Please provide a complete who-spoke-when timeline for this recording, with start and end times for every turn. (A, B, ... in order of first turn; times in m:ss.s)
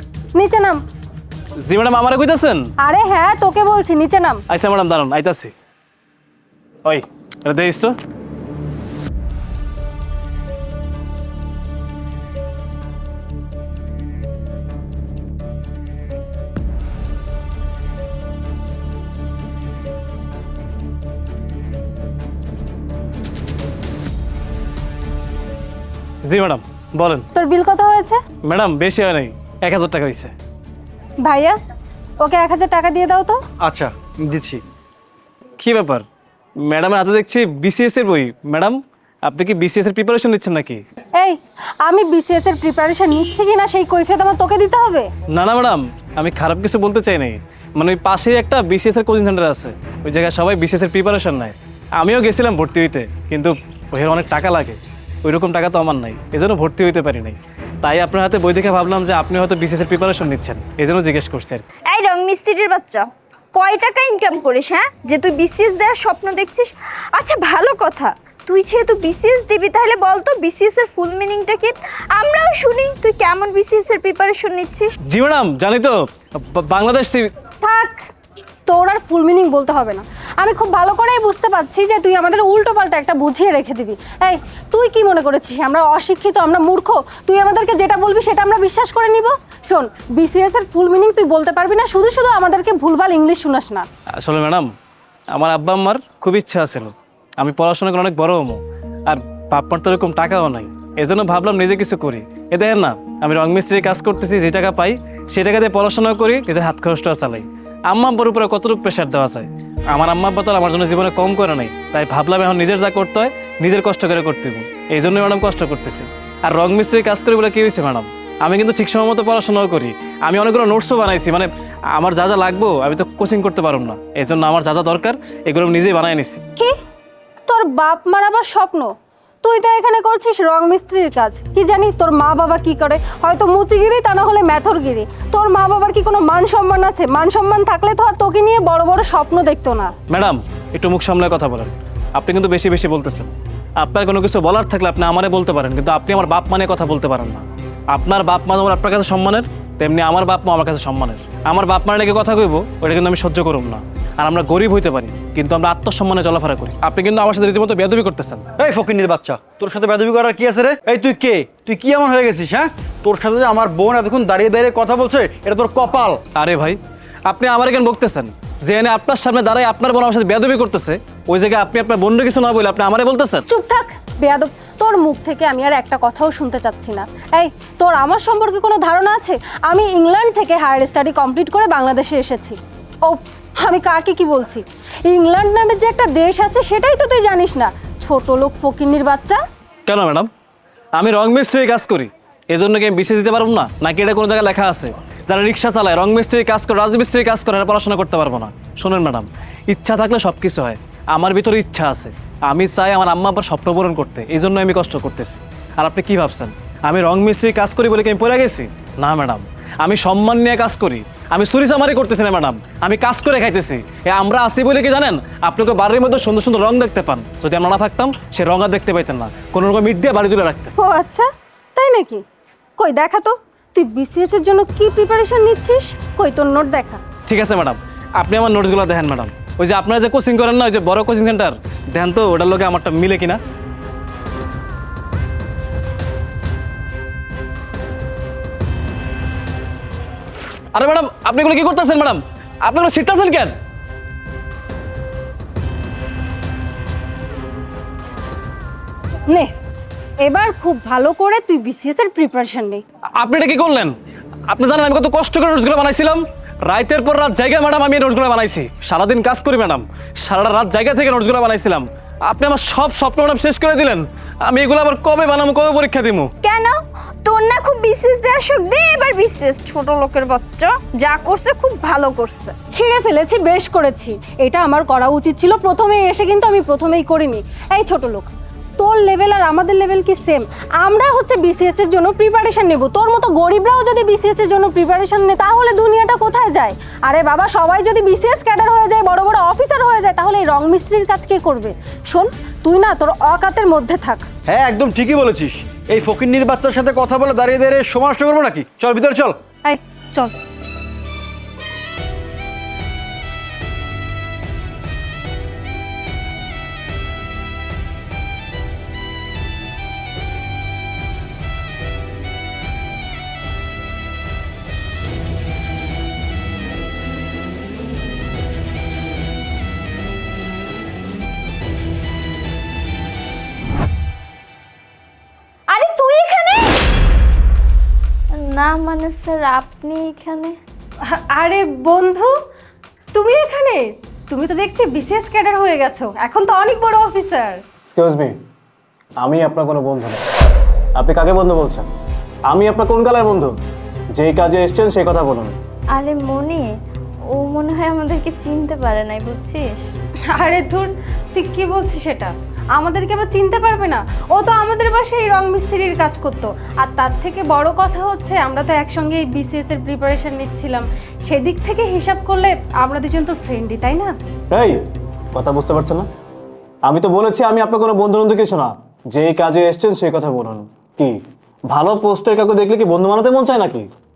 0:00.3-0:00.8 A
0:01.6-0:02.7 B
0:02.8-0:04.4 A
0:04.5-0:05.5 B
0:06.8-0:07.9 B
0:26.2-0:27.2 B
0:27.3-0:28.2 A
0:28.4-0:30.3 B
0:31.2-0:31.6 A
0:32.2-0:33.4 A
0:33.6-0:34.6 C
0:35.6-0:36.0 B
0:36.6-0:40.8 B
0:41.1-0:45.1 A
0:45.3-1:01.6 B
1:01.9-1:14.9 D
1:15.1-1:17.3 B
1:17.6-1:18.1 A
1:18.7-1:33.9 A
1:34.1-1:34.7 B
1:35.3-2:06.4 B
2:07.5-2:08.9 A
2:09.4-2:19.9 A
2:20.1-2:38.4 B
2:38.6-2:46.2 C
2:46.3-2:53.4 B
2:53.5-3:09.4 A
3:09.8-3:10.3 B
3:10.9-3:40.7 B
3:40.8-3:42.2 A
3:42.8-3:47.0 A
3:47.3-3:53.4 B
4:00.7-4:03.6 B
4:10.2-4:12.8 A
4:13.2-4:14.0 B
4:14.5-4:26.3 B
4:26.4-4:32.5 D
4:32.7-4:54.2 A
4:54.5-4:59.3 C
4:59.6-5:00.3 A
5:25.7-5:26.7 A
5:28.4-5:30.5 D
5:31.0-5:32.3 A
5:33.1-5:37.6 A
5:37.8-5:38.3 B
5:39.2-5:40.2 B
5:40.9-5:41.9 B
5:42.5-5:43.6 B
5:44.1-5:45.6 B
5:45.9-5:46.7 D
5:47.3-5:49.9 D
5:50.3-6:04.2 A
6:04.5-6:04.8 B
6:05.3-6:06.1 B
6:06.8-6:11.2 B
6:11.7-6:13.9 B